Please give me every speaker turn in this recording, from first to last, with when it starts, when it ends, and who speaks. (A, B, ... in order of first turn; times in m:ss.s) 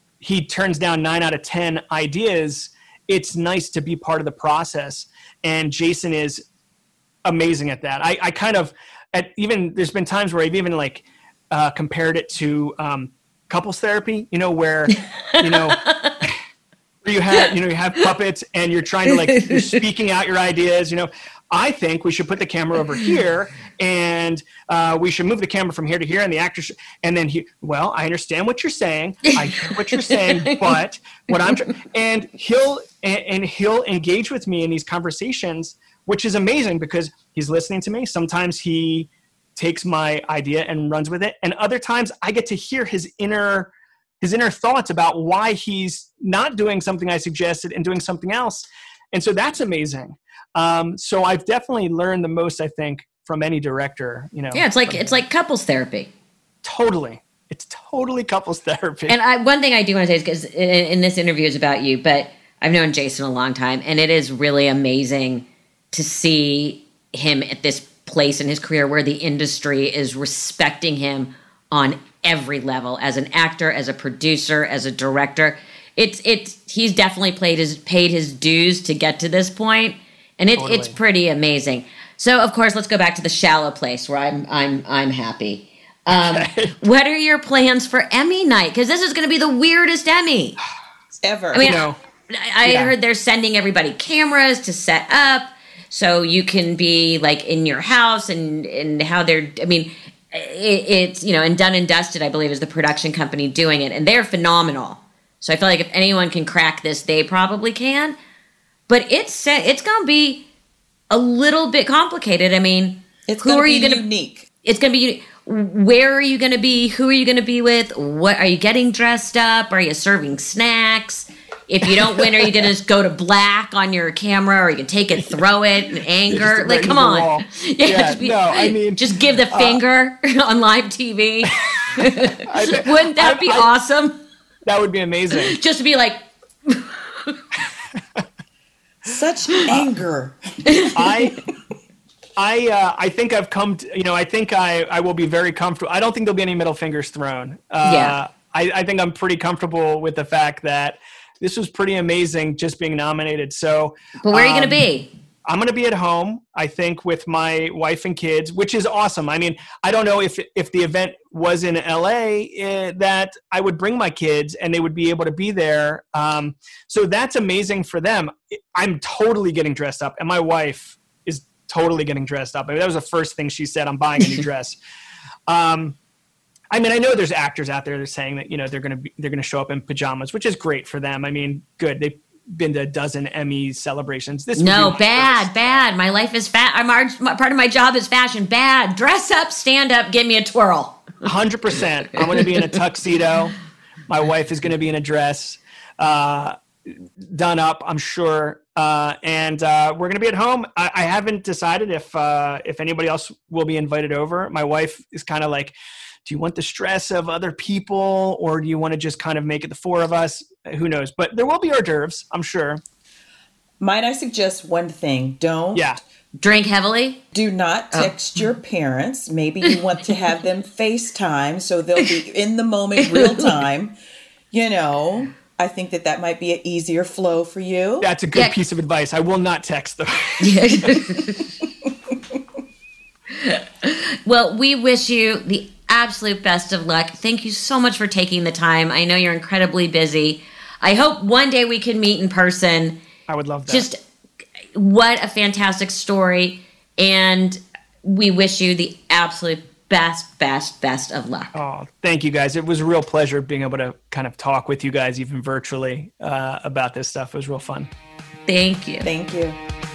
0:00.2-0:06.4 A
0:07.2-0:16.4 A
0:14.9-0:16.2 B
0:17.0-0:55.2 A
0:19.1-0:19.8 B
0:29.3-0:30.6 B
0:54.5-0:56.1 B
0:56.6-0:59.2 A
0:59.1-1:30.6 B
1:20.6-1:21.0 A
1:26.1-1:26.8 A
1:31.2-1:31.7 C
1:31.5-1:48.2 B
1:31.6-1:32.0 A
1:32.6-1:32.9 A
1:48.9-1:50.4 B
1:51.1-1:54.0 B
1:53.3-1:54.5 C
1:54.6-2:14.2 B
2:02.2-2:02.6 A
2:06.3-2:09.8 A
2:11.6-2:13.7 A
2:14.6-2:15.6 A
2:15.3-2:17.4 B
2:19.0-2:20.4 C
2:20.6-2:21.2 B
2:20.9-2:21.4 A
2:22.4-2:34.8 A
2:27.8-2:28.2 B
2:34.2-2:35.1 B
2:35.5-2:54.8 A
2:55.5-2:56.0 A
2:56.7-3:05.8 A
3:04.5-3:11.1 B
3:11.2-3:13.5 A
3:14.1-3:32.8 A
3:33.8-3:35.9 C
3:36.4-3:37.2 B
3:37.3-3:44.0 C
3:43.0-3:43.6 B
3:44.5-3:48.1 C
3:48.0-3:51.2 A
3:50.4-3:51.5 B
3:53.3-4:03.0 B
4:03.3-4:03.9 A
4:03.7-4:04.0 B
4:04.7-4:11.5 B
4:11.5-4:17.9 A
4:18.5-4:19.1 B
4:19.0-4:19.6 C